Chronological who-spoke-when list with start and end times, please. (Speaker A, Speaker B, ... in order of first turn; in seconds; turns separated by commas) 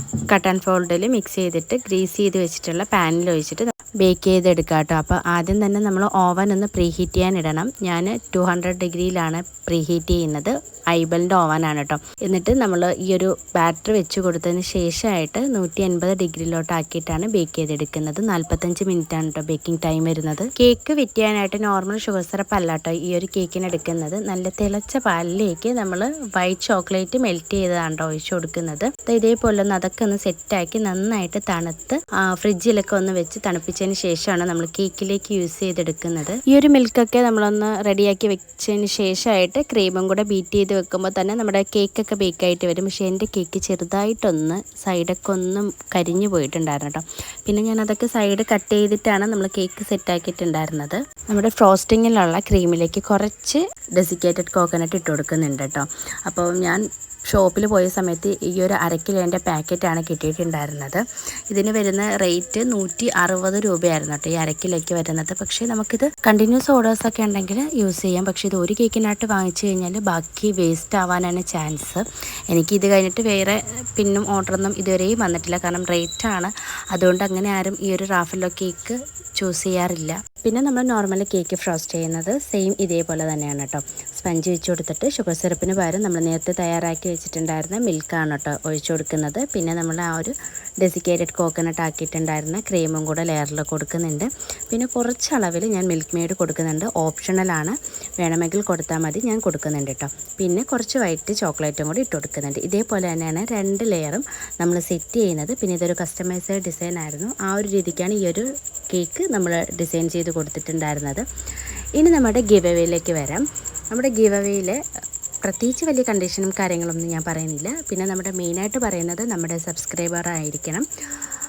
Speaker A: 0.3-111.2, Speaker A: 112.0-114.8, Speaker A: 115.4-120.8